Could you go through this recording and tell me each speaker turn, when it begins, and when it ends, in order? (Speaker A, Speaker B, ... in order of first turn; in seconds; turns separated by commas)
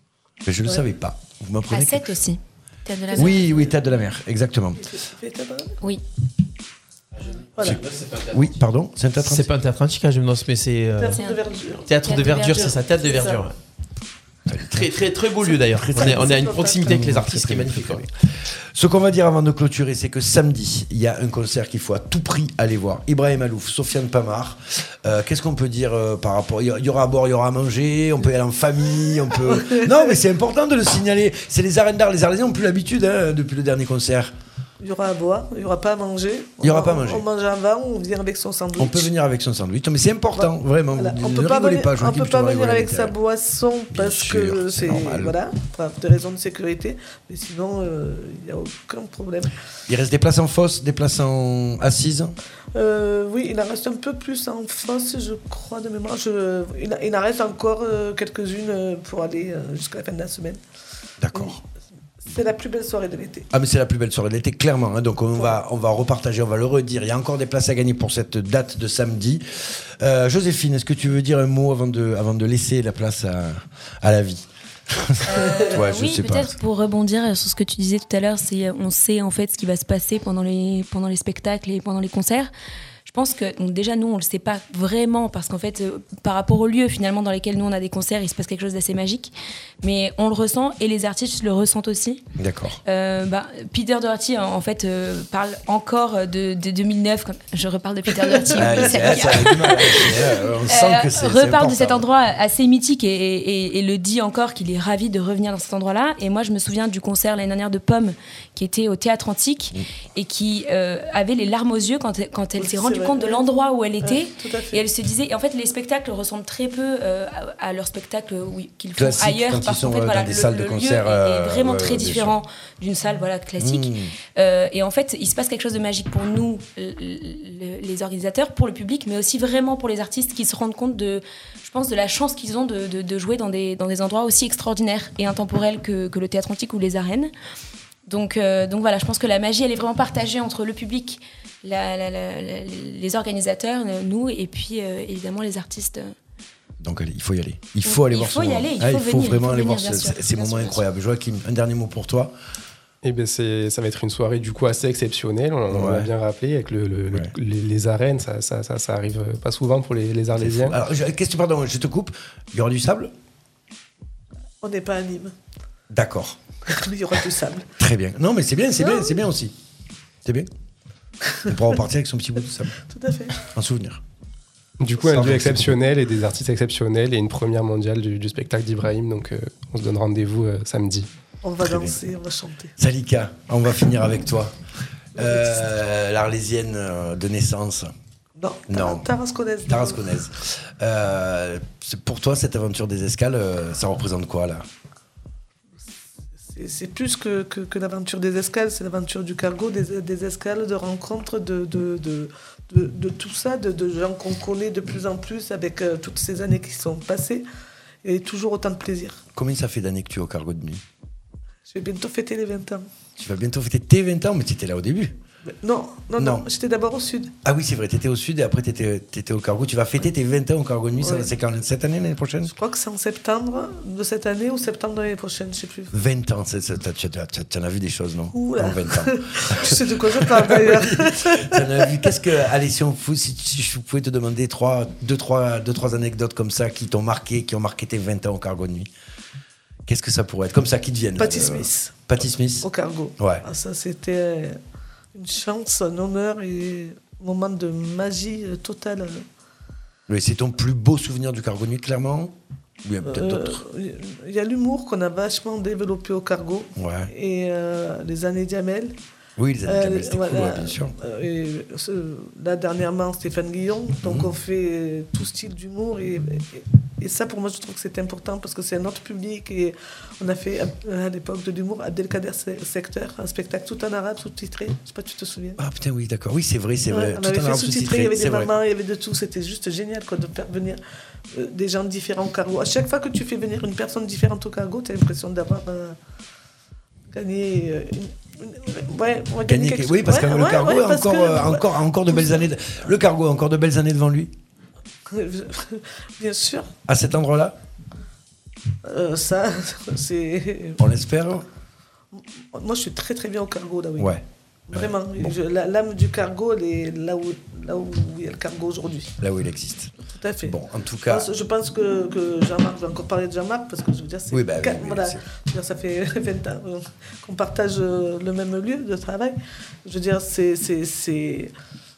Speaker A: 0.5-2.1, Speaker B: 1.7-3.6, Speaker C: 3.1-3.5, Speaker A: 3.1-4.9, Speaker C: 4.9-5.8, Speaker D: 7.2-8.4, Speaker C: 7.6-7.8, Speaker A: 7.6-9.5, Speaker D: 9.2-11.2, Speaker C: 11.0-13.5, Speaker B: 11.1-11.4, Speaker D: 11.9-13.6, Speaker B: 12.0-12.7, Speaker A: 14.5-34.3, Speaker D: 14.7-18.1, Speaker C: 15.9-17.1, Speaker C: 29.4-30.0, Speaker C: 34.8-39.1, Speaker A: 36.6-37.3, Speaker A: 38.8-43.1, Speaker C: 40.4-49.5, Speaker A: 43.9-45.4, Speaker A: 49.9-52.4, Speaker C: 52.8-60.6, Speaker A: 61.2-61.6, Speaker C: 62.2-63.5, Speaker A: 63.5-76.5, Speaker B: 75.3-82.5, Speaker C: 75.3-75.7, Speaker B: 83.1-92.2, Speaker A: 92.4-92.8, Speaker B: 92.8-137.3, Speaker C: 98.5-98.8, Speaker A: 98.5-102.1, Speaker C: 112.6-113.5, Speaker C: 114.0-114.8, Speaker A: 119.0-122.4, Speaker A: 123.6-124.1, Speaker B: 138.1-146.2, Speaker A: 146.8-152.3, Speaker B: 147.8-150.8, Speaker E: 153.0-160.8, Speaker A: 155.7-156.1, Speaker A: 160.4-163.1, Speaker C: 164.6-165.3, Speaker A: 165.9-166.4, Speaker C: 166.7-167.7, Speaker A: 167.8-169.6, Speaker C: 171.2-171.5, Speaker A: 171.5-172.7, Speaker C: 172.8-173.5, Speaker A: 173.4-174.0, Speaker E: 174.8-181.1, Speaker A: 175.0-175.8, Speaker C: 181.4-182.7, Speaker A: 181.6-182.0, Speaker A: 182.8-184.6, Speaker A: 185.2-187.9, Speaker C: 185.2-185.6, Speaker C: 188.4-190.0, Speaker A: 188.7-189.1, Speaker A: 189.7-194.7, Speaker C: 196.5-207.4, Speaker C: 208.0-209.2, Speaker A: 209.3-210.8, Speaker C: 211.7-212.9, Speaker A: 213.2-215.2, Speaker C: 215.5-217.3, Speaker A: 216.2-216.5, Speaker A: 217.4-222.5, Speaker C: 221.0-221.3, Speaker C: 222.4-225.9, Speaker A: 225.9-238.9, Speaker C: 228.3-232.1, Speaker A: 239.9-242.7, Speaker C: 241.2-242.0, Speaker C: 242.6-244.6, Speaker A: 243.2-243.4, Speaker C: 245.1-249.2, Speaker A: 250.1-253.6, Speaker C: 253.1-259.0, Speaker A: 256.8-257.1, Speaker A: 259.4-260.9, Speaker C: 259.7-275.6, Speaker A: 264.0-264.3, Speaker A: 275.6-278.5, Speaker C: 276.9-280.8, Speaker C: 281.3-286.0, Speaker C: 287.1-292.3, Speaker A: 289.4-294.3, Speaker C: 295.1-296.7, Speaker A: 296.9-297.6, Speaker C: 298.9-300.8, Speaker A: 300.8-301.5, Speaker C: 302.1-309.1, Speaker A: 304.0-305.4, Speaker A: 309.2-309.9, Speaker C: 310.1-321.5, Speaker A: 310.4-311.3, Speaker A: 314.3-315.2